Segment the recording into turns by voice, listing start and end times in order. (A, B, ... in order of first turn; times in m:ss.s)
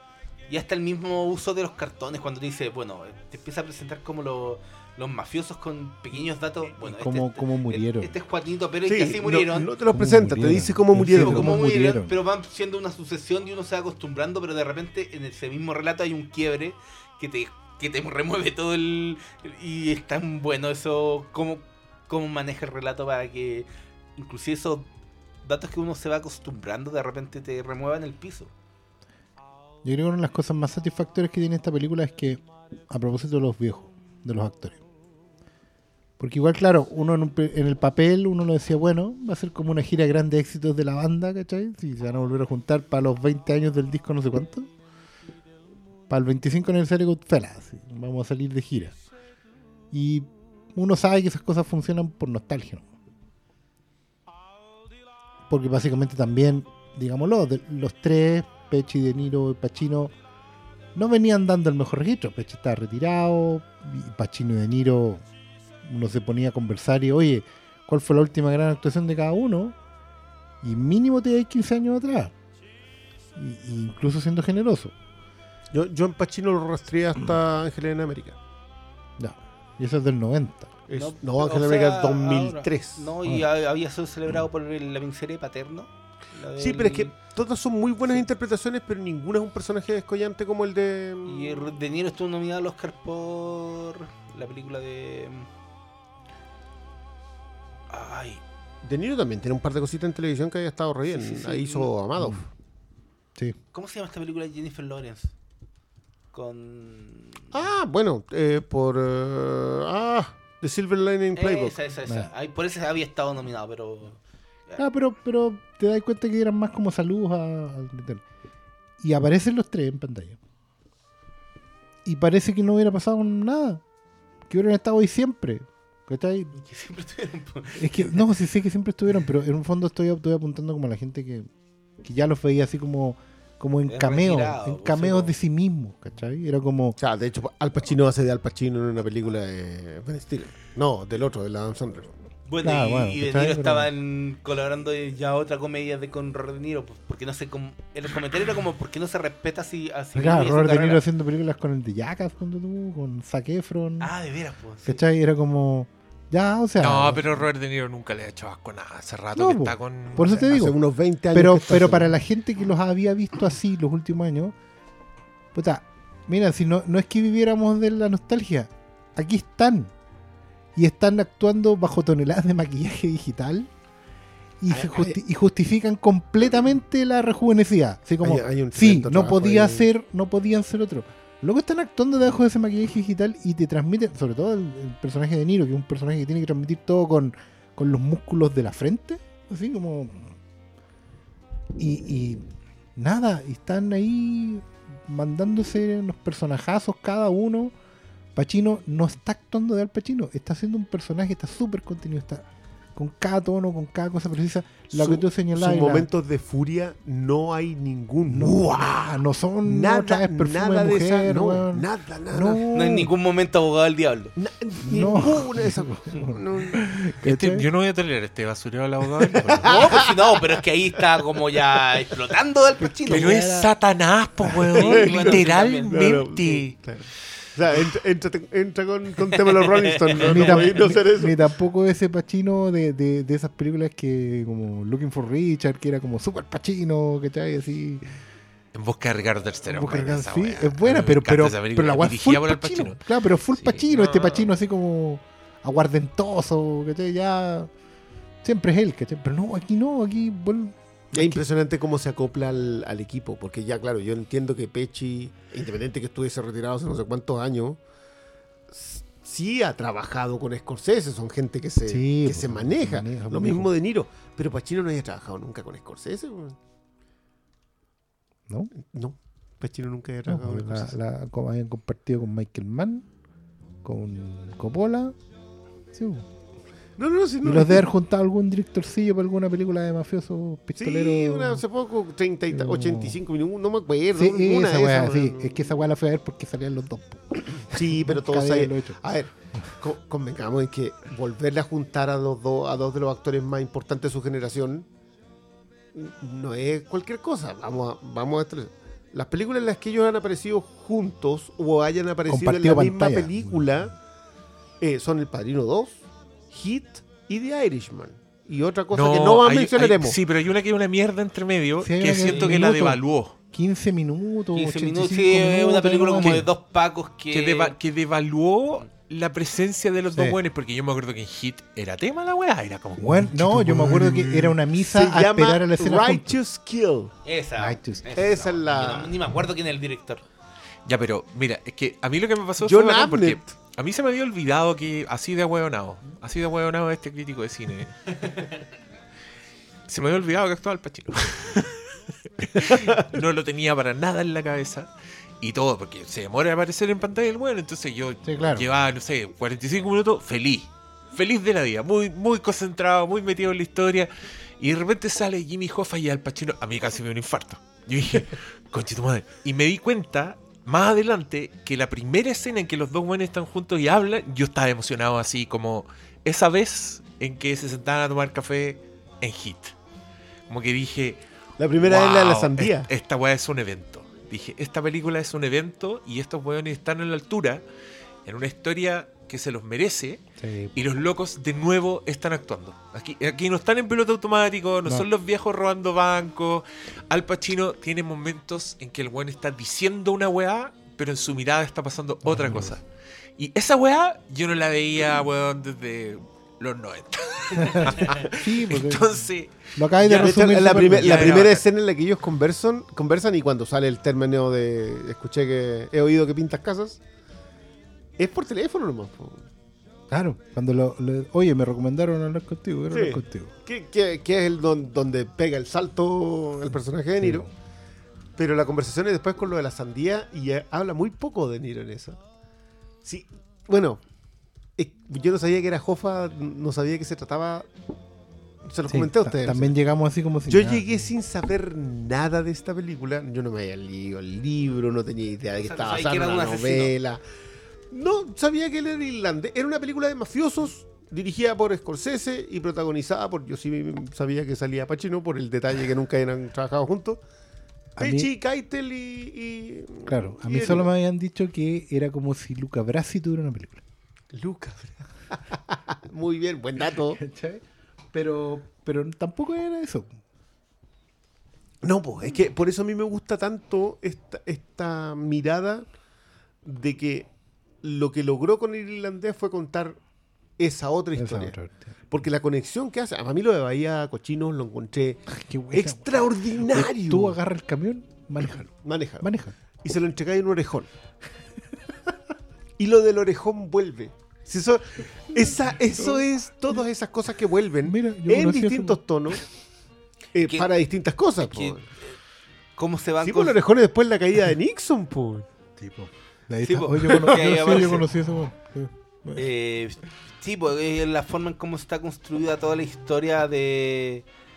0:00.5-0:09.7 A
0:06.8-0:08.1 B
0:08.8-0:11.6 C
0:09.9-0:12.2 B
0:11.1-0:24.9 A
0:25.4-0:28.5 A
0:29.8-0:34.8 B
0:36.2-0:44.7 B
0:46.1-0:48.9 B
0:49.9-0:52.9 B
0:55.5-1:00.1 B
1:00.9-1:05.2 B
1:05.8-1:09.8 B
1:10.6-1:12.3 B
1:13.4-1:14.9 B
1:15.7-1:18.4 C
1:19.2-1:20.7 B
1:20.9-1:23.1 C
1:20.9-1:27.1 A
1:26.6-1:31.7 C
1:31.2-1:35.5 A
1:37.9-1:38.4 A
1:38.8-1:42.5 C
1:41.1-1:41.9 A
1:42.2-1:42.4 B
1:43.7-1:45.3 A
1:46.3-1:47.5 A
1:47.5-1:51.8 C
1:51.4-1:54.8 A
1:54.8-1:58.2 B
1:59.0-2:00.4 B
2:02.0-2:03.8 B
2:04.5-2:06.5 B
2:06.6-2:08.2 A
2:07.8-2:11.4 B
2:12.0-2:17.0 B
2:13.8-2:15.3 A
2:17.0-2:22.1 C
2:22.5-2:31.0 A
2:22.6-2:23.9 B
2:30.1-2:34.1 B
2:34.0-2:35.0 A
2:34.8-2:37.4 B
2:36.8-2:40.4 D
2:39.4-2:40.8 B
2:40.2-2:42.1 C
2:41.3-2:44.5 B
2:45.5-2:49.9 B
2:50.8-2:53.7 B
2:54.6-3:10.4 B
2:54.7-2:55.2 C
2:58.2-2:59.8 C
3:11.8-3:12.4 B
3:13.0-3:17.7 B
3:18.4-3:22.4 B
3:23.0-3:26.1 B
3:24.9-3:32.6 C
3:28.3-3:33.1 B
3:32.7-3:34.3 A
3:34.4-3:36.8 C
3:34.8-3:37.6 B
3:37.2-3:39.7 D
3:39.3-3:40.6 C
3:39.6-3:43.4 A
3:43.0-3:43.7 B
3:43.1-3:46.7 D
3:44.7-3:51.4 C
3:44.7-3:45.9 A
3:49.4-3:50.8 A
3:50.2-3:58.0 B
3:58.7-4:04.5 D
3:59.7-4:07.7 B
4:08.4-4:11.4 B
4:11.1-4:17.8 C
4:18.7-4:26.6 C
4:21.9-4:23.7 B
4:28.7-4:30.9 C
4:30.3-4:33.0 B
4:33.8-4:35.1 B
4:35.9-4:36.2 B
4:37.0-4:37.8 C
4:37.4-4:41.6 B
4:40.8-4:45.7 C
4:42.5-4:43.2 B
4:44.1-4:49.0 B
4:47.6-4:54.9 C
4:55.9-5:03.9 C
5:02.3-5:03.7 B
5:04.8-5:10.2 C
5:08.9-5:13.3 D
5:11.8-5:16.5 B
5:12.2-5:12.6 A
5:14.5-5:17.7 A
5:17.3-5:24.6 D
5:23.0-5:26.4 B
5:24.8-5:27.1 C
5:27.2-5:30.2 A
5:27.6-5:28.2 B
5:28.1-5:29.2 C
5:30.8-5:38.0 D
5:32.6-5:33.5 C
5:38.2-5:38.6 A
5:39.9-5:41.7 D
5:42.4-6:09.7 D
5:42.6-5:43.2 C
5:48.2-5:48.7 B
6:10.5-6:11.2 D
6:11.6-6:12.9 C
6:11.8-6:17.6 D
6:18.2-6:20.2 D
6:20.4-6:20.7 B
6:20.7-6:32.8 D
6:32.2-6:32.7 B
6:33.4-6:41.6 D
6:37.6-6:39.2 B
6:39.7-6:41.5 B
6:40.1-6:47.0 C
6:48.2-6:49.5 C
6:50.1-6:53.5 B
6:52.9-6:57.5 C
6:57.2-6:57.5 B
6:58.4-7:02.2 C
7:03.0-7:04.0 C
7:04.8-7:07.7 C
7:08.6-7:09.7 C
7:08.9-7:11.1 B
7:10.5-7:17.2 C
7:15.6-7:16.9 A
7:17.9-7:27.2 C
7:28.0-7:28.3 B
7:28.0-7:30.9 C
7:30.1-7:33.8 B
7:34.3-7:37.2 C
7:37.2-7:37.6 B
7:38.1-7:40.2 B
7:41.8-7:45.8 C
7:46.6-7:47.3 C
7:47.8-7:50.0 C
7:50.6-7:51.6 C
7:51.2-7:51.9 B
7:52.1-7:57.4 C
7:55.3-7:59.5 B
7:58.8-8:00.9 C
8:02.8-8:09.4 C
8:07.8-8:09.0 B
8:10.3-8:11.8 C
8:10.4-8:10.7 A
8:11.4-8:12.2 A
8:12.8-8:13.6 A
8:13.2-8:15.5 C
8:15.8-8:19.5 B
8:16.6-8:18.1 A
8:19.4-8:24.2 A